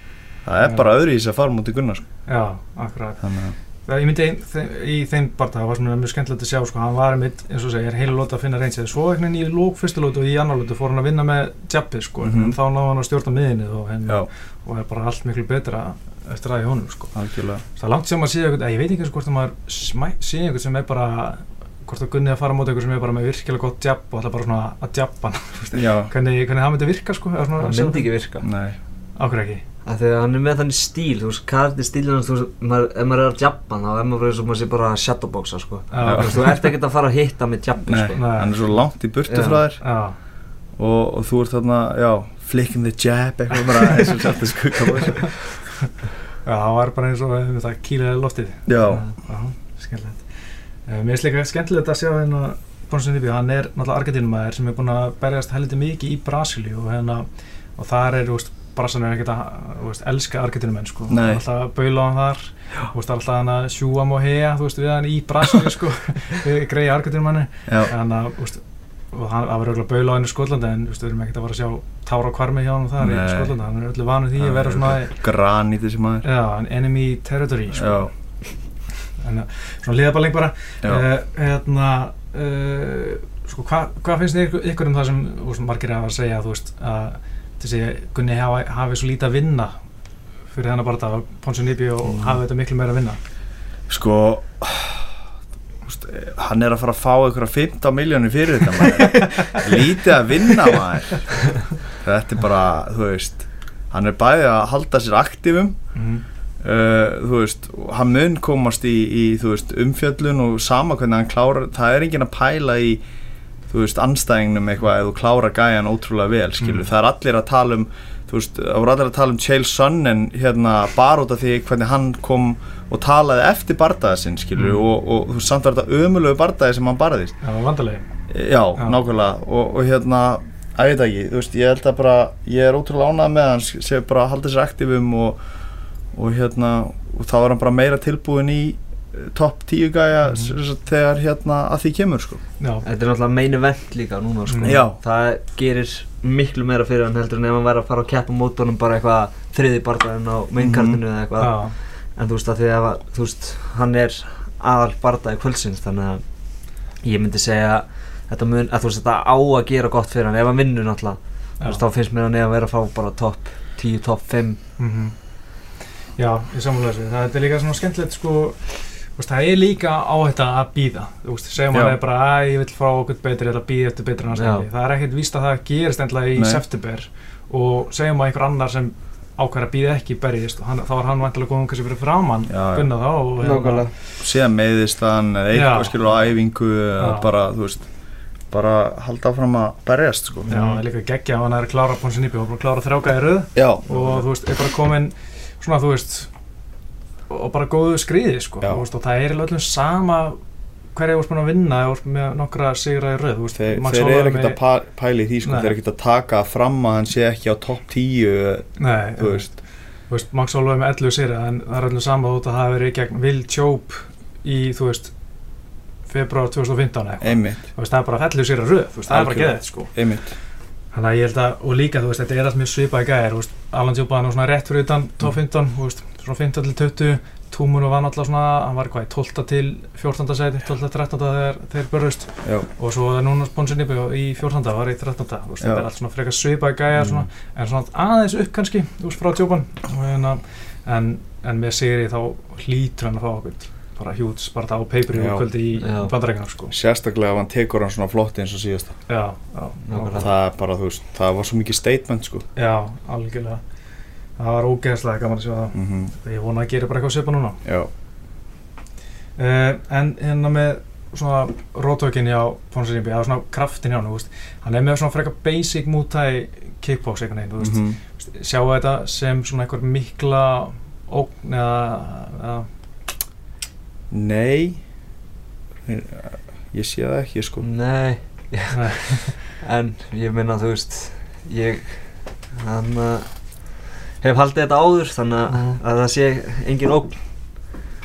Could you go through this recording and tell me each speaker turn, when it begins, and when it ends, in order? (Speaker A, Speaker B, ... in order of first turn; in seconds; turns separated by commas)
Speaker A: 0.4-2.0, Speaker B: 2.3-3.2, Speaker A: 3.2-3.5, Speaker B: 3.8-17.1, Speaker A: 12.2-12.6, Speaker A: 17.1-17.6, Speaker B: 17.8-28.1, Speaker A: 25.7-26.1, Speaker C: 27.6-28.4, Speaker A: 28.4-28.8, Speaker B: 29.2-29.6, Speaker C: 29.8-38.2, Speaker B: 35.9-36.6, Speaker A: 36.0-36.3, Speaker A: 37.9-39.8, Speaker B: 38.1-38.8, Speaker C: 39.3-39.6, Speaker B: 39.8-40.1, Speaker A: 40.8-45.4, Speaker B: 46.4-50.2, Speaker A: 48.7-49.0, Speaker B: 50.9-75.1, Speaker A: 61.1-61.4, Speaker A: 67.7-67.9, Speaker A: 73.0-73.5, Speaker A: 74.4-76.2, Speaker B: 76.2-78.1, Speaker A: 77.7-78.1, Speaker B: 79.2-89.8, Speaker B: 90.5-93.2, Speaker A: 92.0-92.4, Speaker A: 93.9-95.2, Speaker A: 95.8-101.3, Speaker B: 99.1-99.6, Speaker A: 101.9-105.8, Speaker B: 105.9-106.2, Speaker A: 106.6-113.0, Speaker A: 113.7-127.3, Speaker B: 116.6-116.9, Speaker B: 124.5-124.8, Speaker B: 127.4-128.0, Speaker A: 128.3-135.4, Speaker A: 136.1-142.4, Speaker B: 140.2-140.5, Speaker B: 142.6-142.8, Speaker C: 142.8-156.2, Speaker B: 144.5-144.8, Speaker A: 144.6-145.0, Speaker A: 150.6-151.0, Speaker B: 151.4-151.7, Speaker C: 157.0-164.6, Speaker B: 164.8-165.1, Speaker B: 166.2-183.9, Speaker A: 171.7-172.0, Speaker C: 174.4-174.7, Speaker A: 176.4-176.6, Speaker A: 182.5-182.9, Speaker C: 183.4-183.9, Speaker A: 184.2-187.9, Speaker B: 185.5-186.1, Speaker B: 187.0-187.3, Speaker A: 188.5-190.5, Speaker C: 190.5-190.8, Speaker B: 190.5-196.3, Speaker A: 193.5-194.2, Speaker B: 197.3-200.4, Speaker B: 200.9-204.6, Speaker A: 203.5-209.5, Speaker B: 205.4-205.8, Speaker B: 208.8-215.1, Speaker B: 216.1-219.9, Speaker A: 217.2-217.6, Speaker A: 219.1-220.3, Speaker B: 220.9-246.7, Speaker A: 235.6-235.9, Speaker A: 245.1-245.5, Speaker C: 245.8-246.1, Speaker A: 246.7-249.0, Speaker B: 249.1-250.2, Speaker C: 249.8-250.3, Speaker A: 250.2-252.4, Speaker B: 252.6-253.6, Speaker B: 254.4-257.6, Speaker A: 255.7-256.1, Speaker A: 257.6-257.9, Speaker B: 259.4-272.7, Speaker A: 267.6-268.0, Speaker A: 274.1-274.8, Speaker A: 275.9-277.7, Speaker C: 277.6-287.8, Speaker B: 278.7-279.4